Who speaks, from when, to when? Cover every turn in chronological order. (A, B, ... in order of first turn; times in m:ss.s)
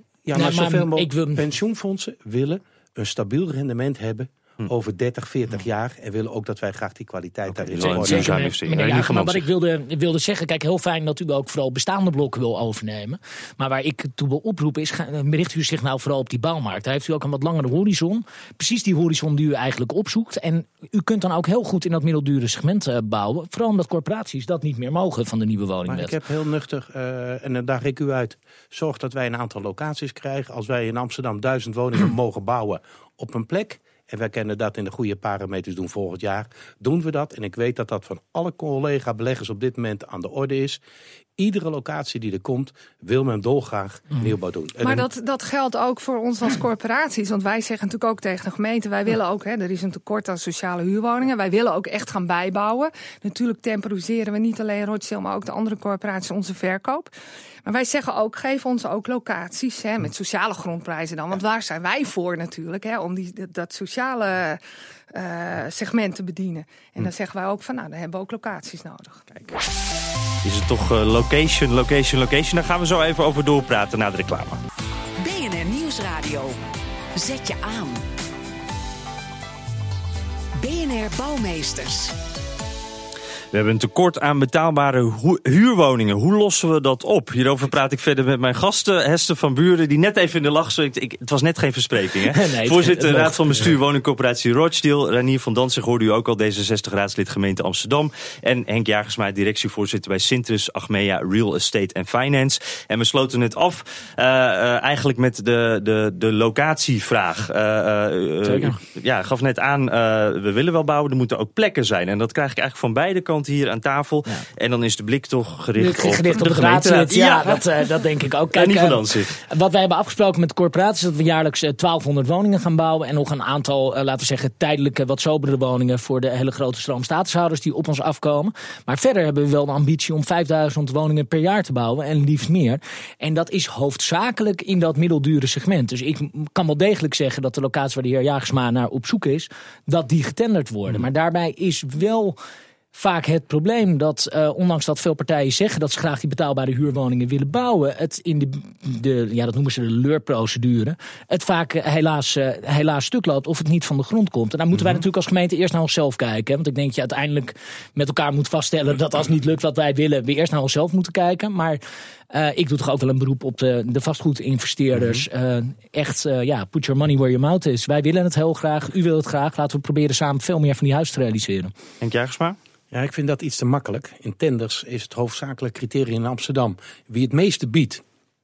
0:00.2-0:08.4 A
0:00.3-0:01.4 B
0:07.5-0:09.5 C
0:07.8-0:26.2 B
0:25.9-0:40.8 A
0:41.4-0:45.0 A
0:44.8-0:57.1 D
0:57.6-1:04.6 D
1:05.1-1:09.6 D
1:10.4-1:14.6 C
1:15.2-1:16.6 E
1:17.2-1:18.0 E
1:20.6-1:22.1 E
1:23.5-1:57.7 C
1:32.3-1:33.8 B
1:48.4-1:48.8 B
1:55.8-2:22.4 B
1:58.5-1:59.3 C
2:22.9-2:41.8 B
2:34.7-2:35.0 C
2:42.3-2:51.7 B
2:45.0-2:45.2 C
2:52.0-2:52.6 C
2:52.9-2:58.0 A